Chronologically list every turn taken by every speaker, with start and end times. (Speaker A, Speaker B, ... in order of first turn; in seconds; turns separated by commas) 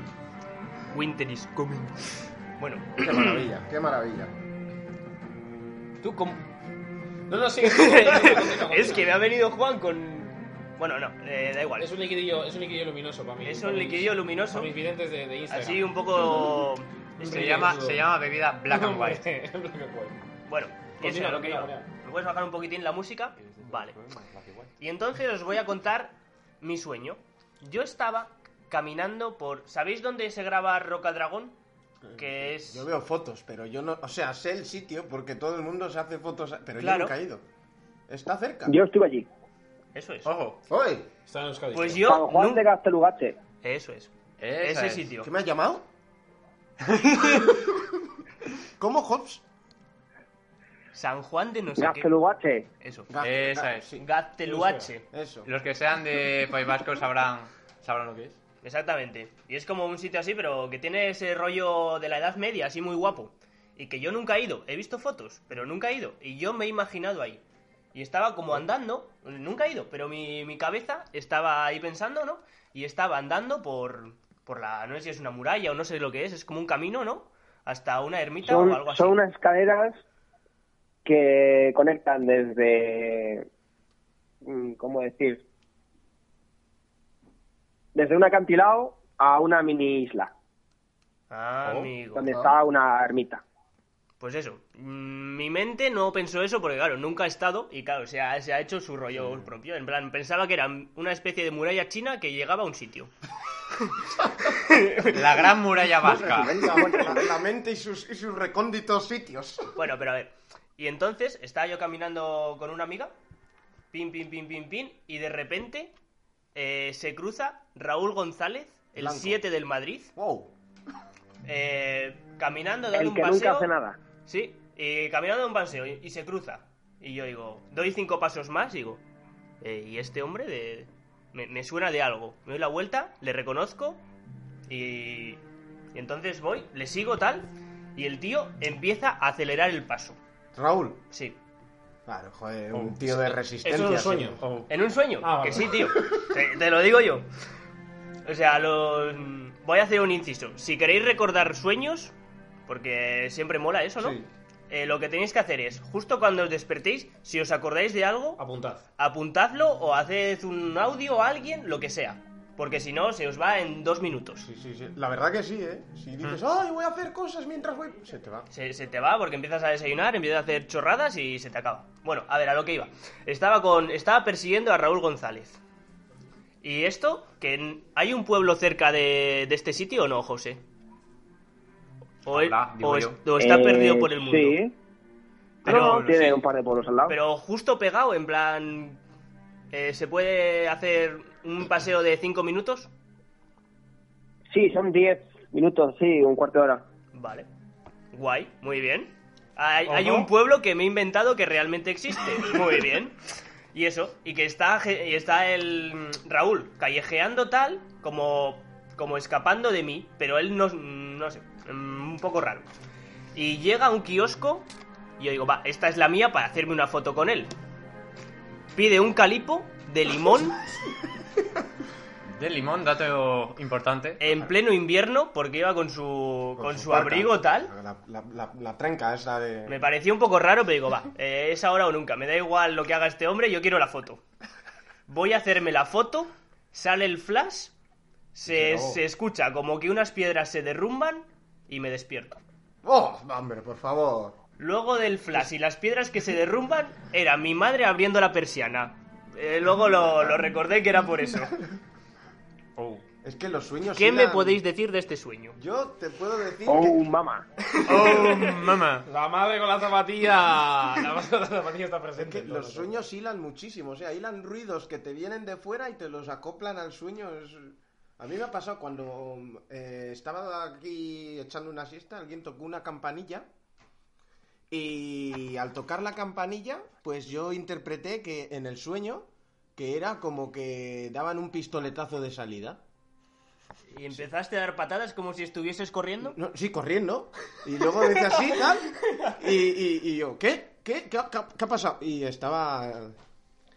Speaker A: 0.9-3.5, Speaker B: 3.0-4.3, Speaker C: 6.0-6.3, Speaker A: 6.0-6.4, Speaker D: 7.3-9.1, Speaker A: 7.6-11.9, Speaker D: 11.8-16.3, Speaker A: 13.4-14.7, Speaker A: 15.5-17.6, Speaker D: 17.2-18.1, Speaker C: 17.2-19.2, Speaker D: 18.7-20.2, Speaker A: 20.5-23.9, Speaker D: 21.0-21.9, Speaker C: 23.4-24.7, Speaker A: 24.8-31.6, Speaker B: 32.0-37.4, Speaker A: 32.2-32.9, Speaker A: 36.8-37.1, Speaker B: 38.1-38.8, Speaker E: 38.7-39.3, Speaker A: 39.9-40.3, Speaker C: 40.2-40.6, Speaker B: 40.7-41.1, Speaker D: 41.3-42.1, Speaker A: 41.7-42.6, Speaker E: 42.0-43.4, Speaker A: 43.6-45.3, Speaker C: 44.4-45.1, Speaker B: 45.2-45.9, Speaker B: 48.8-49.4, Speaker A: 50.9-52.1, Speaker E: 51.8-52.7, Speaker A: 52.8-53.1, Speaker B: 53.1-54.0, Speaker C: 53.2-53.9, Speaker A: 54.0-55.0, Speaker D: 54.4-54.9, Speaker B: 55.1-55.5, Speaker C: 55.5-58.4, Speaker A: 58.6-67.4, Speaker A: 67.9-79.2, Speaker E: 78.4-80.0, Speaker E: 81.0-83.5, Speaker E: 84.4-85.4, Speaker E: 87.9-90.3, Speaker A: 91.3-92.3, Speaker E: 92.1-93.4, Speaker A: 94.2-103.1, Speaker A: 104.4-105.5, Speaker C: 105.0-106.6, Speaker E: 106.0-107.2, Speaker B: 106.0-109.7, Speaker A: 109.8-113.1, Speaker A: 113.9-115.9, Speaker A: 116.5-120.1, Speaker B: 119.0-119.4, Speaker B: 120.2-120.5, Speaker A: 121.4-123.7, Speaker E: 122.9-124.0, Speaker A: 124.2-129.0, Speaker A: 129.6-134.0, Speaker A: 134.7-135.4, Speaker A: 135.9-140.2, Speaker B: 140.5-141.0, Speaker A: 141.1-141.4, Speaker B: 142.1-144.4, Speaker C: 142.7-143.3, Speaker D: 143.6-144.4, Speaker C: 144.4-144.7, Speaker A: 144.7-147.3, Speaker D: 145.2-145.8, Speaker A: 148.2-152.1, Speaker A: 152.7-154.2, Speaker A: 154.7-158.4, Speaker D: 158.4-158.8, Speaker A: 159.0-164.5, Speaker B: 164.4-168.5, Speaker A: 168.5-175.6, Speaker A: 176.6-180.6, Speaker A: 182.2-184.6, Speaker C: 182.3-183.2, Speaker E: 183.4-184.7, Speaker A: 185.6-186.4, Speaker E: 185.7-187.2, Speaker C: 185.7-186.3, Speaker A: 187.1-189.0, Speaker A: 189.7-192.9, Speaker E: 194.5-196.8, Speaker A: 197.1-197.5, Speaker A: 198.1-203.2, Speaker C: 199.9-200.2, Speaker A: 203.7-212.7, Speaker A: 213.3-214.7, Speaker A: 215.2-217.5, Speaker A: 218.7-220.6, Speaker C: 222.3-224.2, Speaker A: 224.2-227.7, Speaker B: 226.6-229.8, Speaker A: 229.7-234.2, Speaker A: 235.1-237.7, Speaker A: 238.3-242.4, Speaker B: 238.5-239.0, Speaker B: 242.8-244.4, Speaker A: 244.6-251.6, Speaker C: 252.8-253.0, Speaker B: 253.2-254.6, Speaker A: 253.9-255.6, Speaker B: 255.5-257.0, Speaker E: 256.6-257.5, Speaker C: 257.8-259.1, Speaker A: 257.9-258.5, Speaker D: 259.1-262.9, Speaker B: 262.2-273.5, Speaker B: 274.7-282.8, Speaker A: 283.9-286.4, Speaker B: 286.3-293.1